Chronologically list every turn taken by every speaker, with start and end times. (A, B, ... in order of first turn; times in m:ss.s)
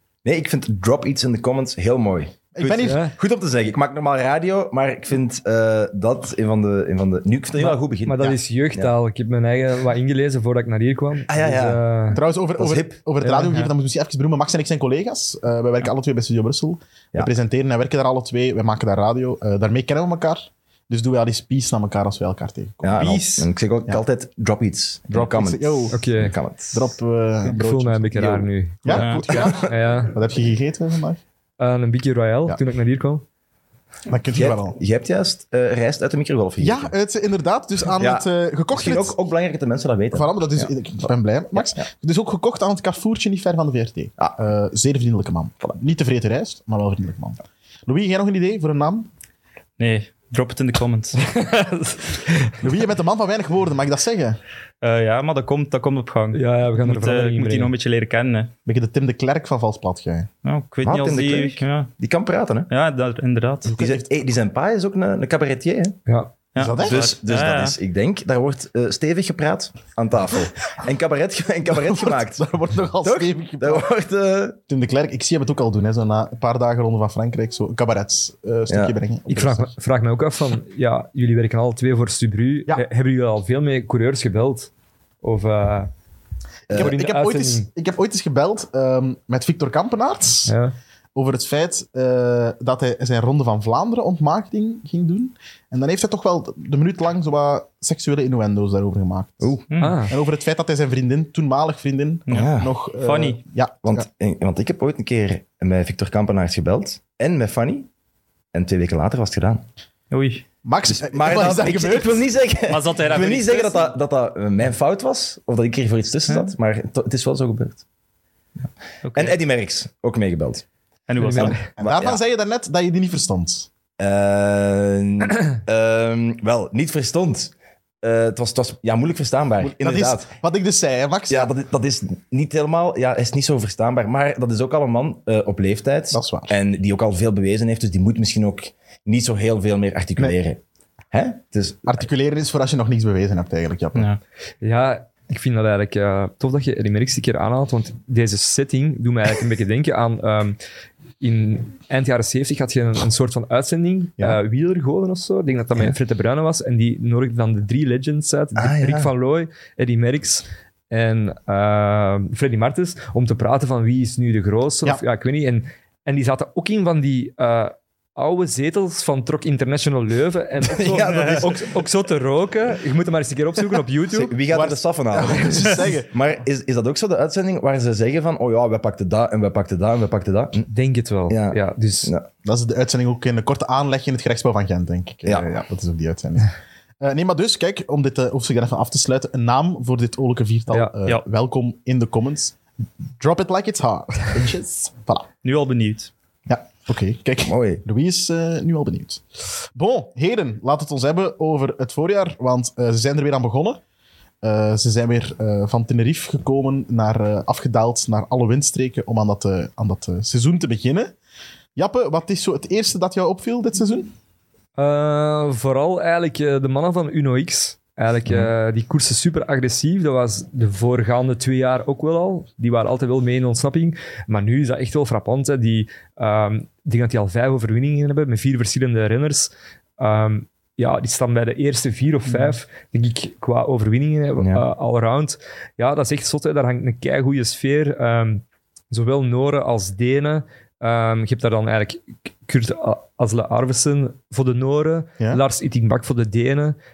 0:00.2-0:08.9 A
0:02.6-0:03.0 B
0:02.8-0:03.1 C
0:07.6-0:12.2 C
0:11.3-0:11.8 A
0:12.1-0:23.1 B
0:12.6-0:13.0 A
0:13.2-0:13.7 C
0:22.8-0:26.9 A
0:22.9-0:23.5 D
0:25.1-0:26.0 B
0:25.9-0:26.3 C
0:26.7-0:28.3 B
0:27.4-0:30.1 C
0:28.1-0:28.5 A
0:28.8-0:31.2 B
0:29.0-0:29.3 D
0:29.3-0:29.7 A
0:31.6-0:33.2 C
0:34.1-0:34.8 B
0:34.3-0:36.9 A
0:36.6-0:39.1 B
0:38.0-0:40.7 A
0:40.1-0:49.1 B
0:41.5-0:41.8 A
0:49.8-0:51.2 D
0:51.2-0:52.6 C
0:52.6-0:54.4 B
0:54.8-0:58.5 D
0:56.3-0:57.7 C
0:58.6-1:00.3 B
1:00.4-1:01.9 D
1:00.8-1:02.7 A
1:02.7-1:03.7 D
1:03.7-1:04.1 B
1:03.7-1:06.0 A
1:06.1-1:06.3 C
1:06.5-1:07.7 D
1:06.6-1:07.0 B
1:06.8-1:12.4 A
1:11.7-1:13.9 B
1:13.0-1:14.6 A
1:14.7-1:19.7 B
1:18.7-1:18.9 A
1:19.3-1:24.7 C
1:25.2-1:25.9 C
1:26.7-1:26.9 A
1:26.7-1:30.5 B
1:26.7-1:27.7 C
1:30.5-1:30.7 C
1:31.1-1:39.6 B
1:39.4-1:39.7 A
1:39.7-1:40.0 D
1:39.8-1:40.1 C
1:40.1-1:44.0 B
1:42.3-1:43.4 D
1:42.3-1:42.7 A
1:43.8-1:47.9 A
1:48.5-1:49.6 A
1:50.1-1:50.4 D
1:50.6-1:52.2 B
1:50.8-1:57.8 A
1:52.7-1:53.9 D
1:56.3-1:56.5 D
1:59.0-1:59.4 D
1:59.1-2:00.6 A
2:01.1-2:01.6 D
2:01.2-2:01.6 C
2:01.8-2:03.7 B
2:01.8-2:02.2 A
2:04.0-2:10.3 A
2:09.6-2:11.5 B
2:11.3-2:20.6 A
2:16.1-2:16.5 B
2:21.1-2:22.0 A
2:21.8-2:24.1 B
2:23.9-2:24.2 D
2:24.6-2:30.6 C
2:31.2-2:54.4 C
2:38.5-2:39.1 A
2:50.6-2:51.7 A
2:51.1-2:51.4 D
2:54.1-3:00.7 A
2:54.5-2:56.1 B
3:00.7-3:02.1 C
3:01.3-3:02.3 A
3:02.4-3:12.6 B
3:13.2-3:15.3 B
3:15.4-3:16.1 D
3:16.5-3:23.8 B
3:17.4-3:17.8 A
3:24.4-3:31.1 B
3:31.8-3:34.1 B
3:34.8-4:06.8 C
3:54.4-3:54.6 A